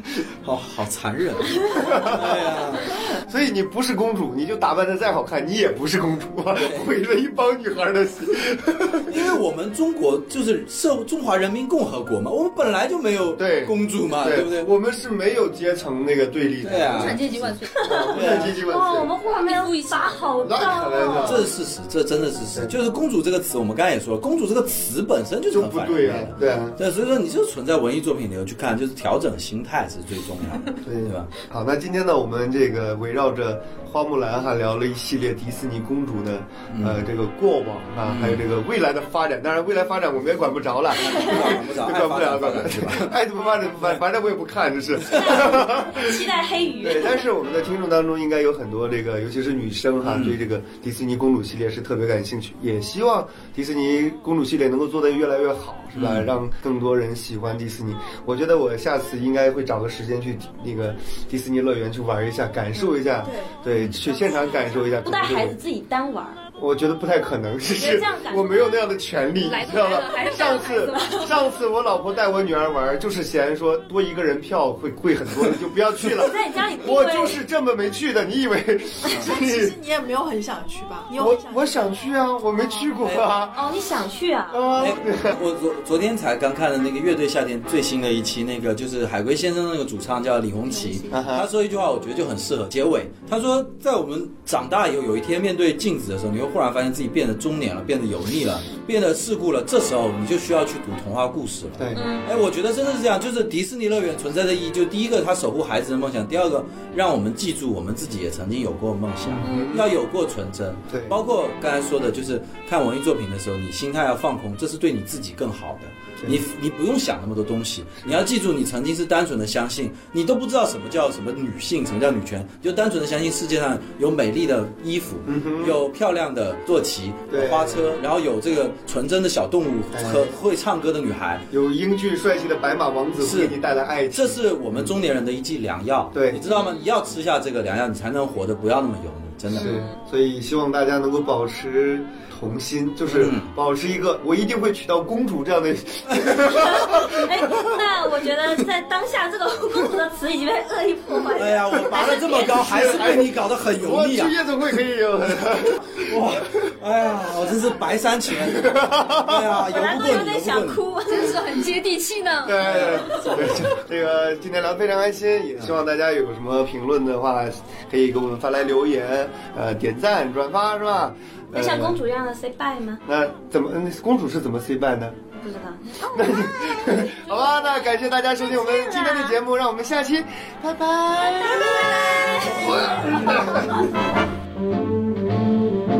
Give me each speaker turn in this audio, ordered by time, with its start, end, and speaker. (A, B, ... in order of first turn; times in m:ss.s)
0:00.4-0:02.9 A
0:01.7-0:02.5 B
0:03.2-0:09.3 B
0:06.6-0:06.9 A
0:09.1-0:14.7 A
0:13.4-0:17.2 B
0:16.6-0:18.5 A
0:16.8-0:18.4 C
0:17.8-0:21.4 D
0:18.0-0:19.1 B
0:19.3-0:20.4 C
0:20.4-0:21.5 B
0:21.2-0:31.3 A
0:25.5-0:26.8 B
0:30.8-1:05.6 B
0:36.7-0:37.0 A
0:38.1-0:38.4 A
0:41.0-0:43.1 A
0:41.0-0:41.3 D
0:45.1-0:47.2 D
0:45.1-0:45.4 A
0:50.0-0:50.4 A
0:55.9-0:56.3 A
1:03.2-1:03.5 E
1:05.0-1:06.4 D
1:06.6-1:19.7 B
1:07.7-1:08.9 D
1:09.4-1:11.4 C
1:10.9-1:11.2 D
1:16.1-1:17.4 D
1:19.2-1:21.9 E
1:21.1-1:23.7 B
1:23.6-1:24.7 D
1:24.5-1:25.4 B
1:24.8-2:11.4 A
1:31.1-1:31.5 B
1:41.8-1:42.1 B
1:41.9-1:42.3 D
1:49.3-1:50.0 B
1:49.4-1:49.8 D
1:50.9-1:51.2 B
2:05.3-2:05.8 B
2:07.3-2:08.0 B
2:09.9-2:10.3 B
2:11.5-2:14.9 B
2:13.2-2:13.5 A
2:14.1-2:19.8 A
2:16.1-2:16.4 B
2:19.5-2:27.8 B
2:19.6-2:19.9 D
2:23.1-2:23.5 A
2:26.4-2:33.2 D
2:31.3-2:34.3 A
2:32.0-2:36.3 B
2:35.9-2:40.8 A
2:38.4-2:39.6 B
2:39.6-2:41.4 D
2:41.0-2:43.4 C
2:42.4-2:52.0 B
2:42.6-2:43.7 A
2:51.5-2:53.0 D
2:53.1-2:55.2 B
2:55.4-2:57.8 D
2:56.1-3:03.9 B
2:58.4-2:59.4 D
3:01.2-3:03.8 D